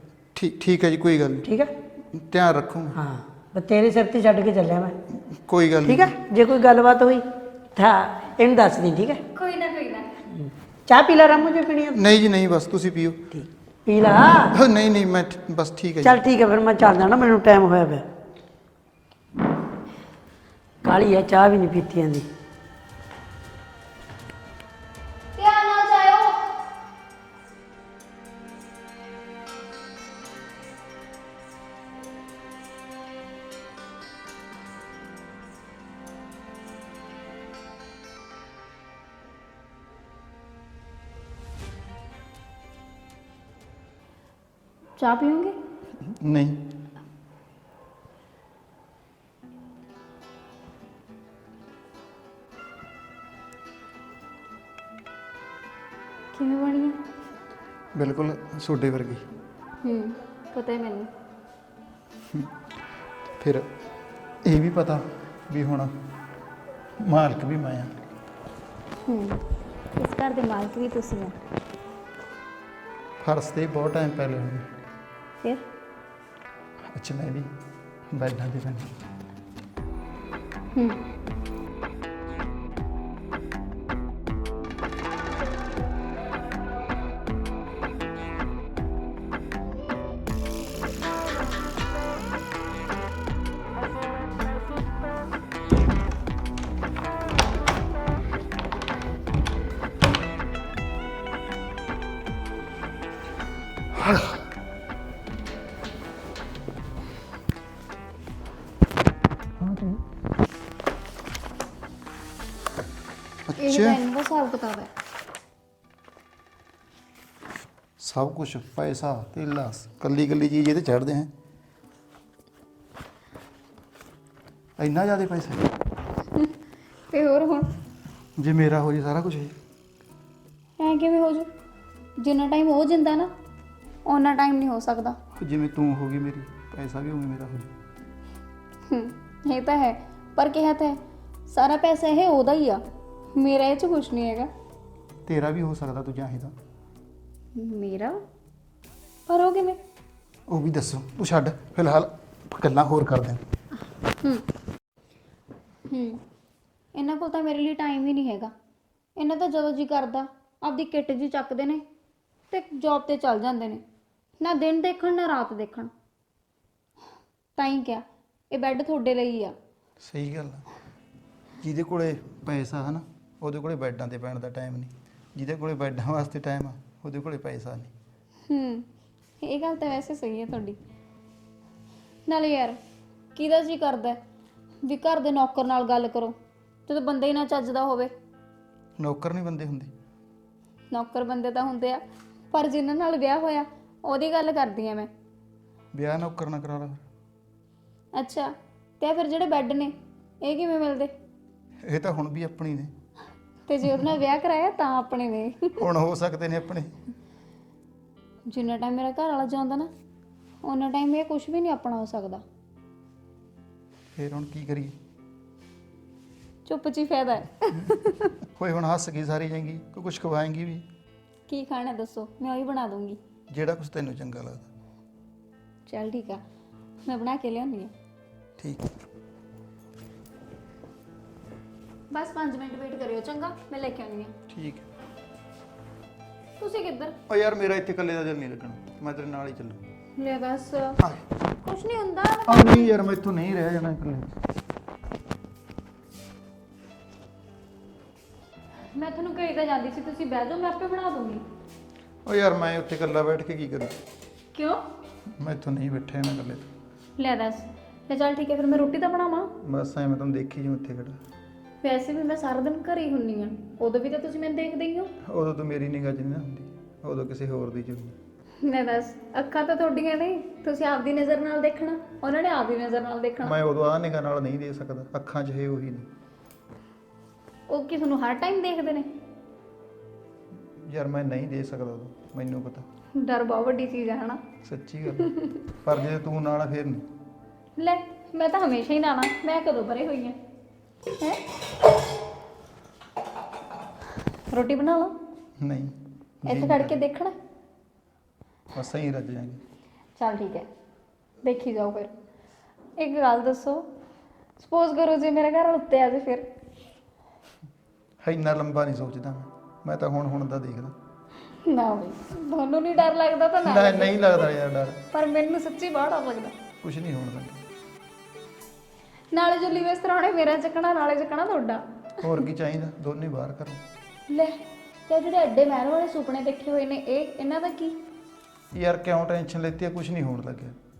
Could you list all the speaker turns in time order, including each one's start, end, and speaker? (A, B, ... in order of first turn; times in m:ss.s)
0:00.3-0:01.5 A
0:01.4-0:01.7 B
0:02.1-0:03.0 A
0:02.9-0:05.0 B
0:05.2-0:06.1 A
0:05.8-0:09.2 B
0:09.3-0:10.1 C
0:10.4-0:12.0 B
0:11.9-0:13.3 A
0:13.3-0:14.5 B
0:14.5-0:16.2 A
0:16.0-0:18.0 B
0:20.8-0:22.3 B
0:25.3-0:26.4 C
0:45.0-0:45.5 C
0:46.1-0:46.7 A
0:56.3-0:57.0 C
0:58.0-0:59.2 A
0:59.8-1:01.1 C
1:03.4-1:03.7 A
1:04.4-1:05.9 A
1:07.0-1:07.9 A
1:09.0-1:09.4 C
1:10.0-1:11.3 C
1:13.2-1:14.7 A
1:16.9-1:17.5 A
1:18.1-1:18.9 A
1:20.7-1:21.0 C
1:44.0-1:44.4 A
1:49.6-1:50.0 A
1:53.5-1:54.0 A
1:53.6-1:54.9 C
1:58.0-2:01.3 A
2:04.8-2:05.7 A
2:07.1-2:07.7 C
2:08.4-2:09.5 A
2:10.8-2:11.5 C
2:12.2-2:13.3 C
2:14.0-2:15.2 C
2:15.4-2:17.7 A
2:18.9-2:22.8 C
2:23.3-2:24.5 C
2:25.2-2:26.5 A
2:27.5-2:28.2 C
2:29.3-2:29.8 C
2:30.5-2:33.4 A
2:35.9-2:36.2 C
2:37.0-2:38.5 C
2:39.2-2:41.8 C
2:42.5-2:43.8 C
2:44.4-2:45.9 C
2:47.6-2:49.5 C
2:50.0-2:50.6 A
2:51.6-2:57.9 A
2:58.5-2:58.8 C
2:59.4-3:00.8 C
3:02.3-3:02.8 C
3:03.3-3:04.2 C
3:04.8-3:06.3 C
3:06.8-3:08.1 C
3:09.0-3:09.9 A
3:10.9-3:15.1 C
3:15.9-3:17.0 A
3:18.2-3:21.1 C
3:21.8-3:22.9 A
3:23.7-3:25.8 C
3:25.8-3:26.9 A
3:28.5-3:29.9 C
3:30.6-3:32.4 C
3:34.2-3:35.0 A
3:36.6-3:38.3 C
3:38.6-3:40.8 A
3:41.5-3:43.2 C
3:43.5-3:44.7 A
3:45.8-3:46.4 C
3:47.0-3:47.9 C
3:48.6-3:48.9 A
3:52.1-3:54.3 C
3:54.5-3:54.8 A
3:56.6-3:57.2 C
3:57.3-3:59.8 A
4:00.2-4:01.0 C
4:01.0-4:01.3 A
4:01.6-4:02.9 C
4:02.5-4:04.3 A
4:08.9-4:11.4 C
4:12.2-4:14.0 A
4:14.5-4:14.8 C
4:15.4-4:16.7 A
4:17.2-4:19.5 C
4:19.6-4:21.2 A
4:21.8-4:25.1 C
4:25.2-4:28.2 A
4:28.6-4:33.6 C
4:33.4-4:36.1 A
4:37.7-4:39.1 C
4:40.8-4:42.9 A
4:43.2-4:44.4 C
4:44.6-4:47.1 A
4:47.8-4:50.4 C
4:54.5-4:55.1 C
4:55.6-4:57.0 A
4:56.5-4:57.3 C
4:58.7-4:59.6 A
5:00.2-5:00.7 C
5:01.4-5:02.1 C
5:03.0-5:03.8 C
5:04.6-5:06.5 C
5:08.2-5:11.0 A
5:11.6-5:14.4 C
5:13.6-5:15.0 A
5:15.1-5:16.5 C
5:16.8-5:17.6 A
5:19.3-5:21.8 C
5:22.2-5:23.8 A
5:24.3-5:28.0 C
5:28.7-5:30.8 A